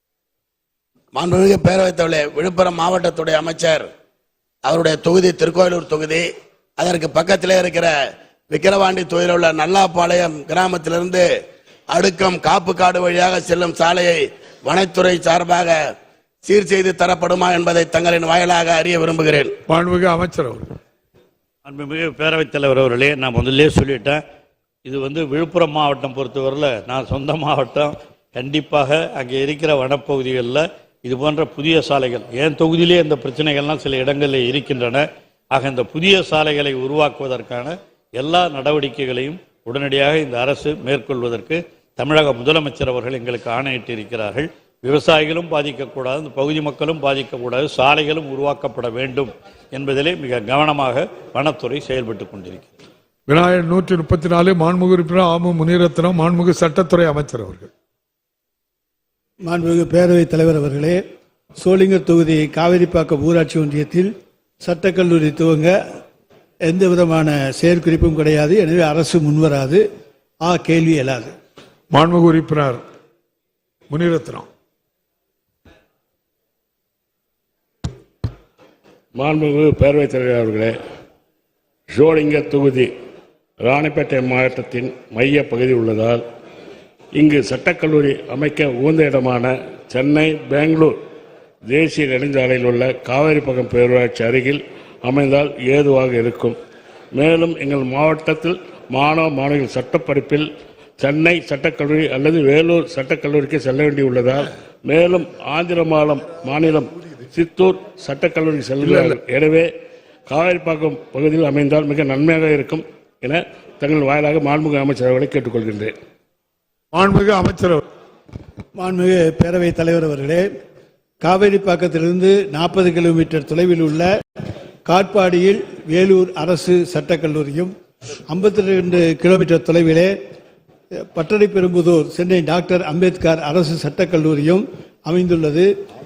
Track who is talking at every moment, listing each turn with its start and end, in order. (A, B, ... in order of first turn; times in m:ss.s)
0:01.1-0:03.9 A
0:04.6-0:06.3 A
0:06.8-0:07.9 A
0:08.5-0:11.3 A
0:11.9-0:15.8 A
0:16.4-0:19.5 A
0:19.7-0:20.7 B
0:21.7-0:24.2 C
0:24.8-0:52.7 C
0:53.3-0:57.7 B
0:59.4-1:01.0 D
1:01.6-1:05.8 D
1:06.6-1:09.8 D
1:10.4-1:11.3 D
1:11.9-1:12.8 B
1:13.9-1:14.5 B
1:19.2-1:20.7 E
1:21.9-1:22.9 E
1:23.6-1:26.2 E
1:27.2-1:31.0 E
1:31.7-1:36.6 E
1:37.2-1:40.5 E
1:41.0-1:49.7 E
1:48.8-1:49.2 B
1:50.3-1:55.9 E
1:56.9-1:57.8 B
1:58.8-2:00.4 D
2:01.2-2:04.1 D
2:04.9-2:07.7 D
2:08.3-2:10.2 D
2:11.0-2:15.7 D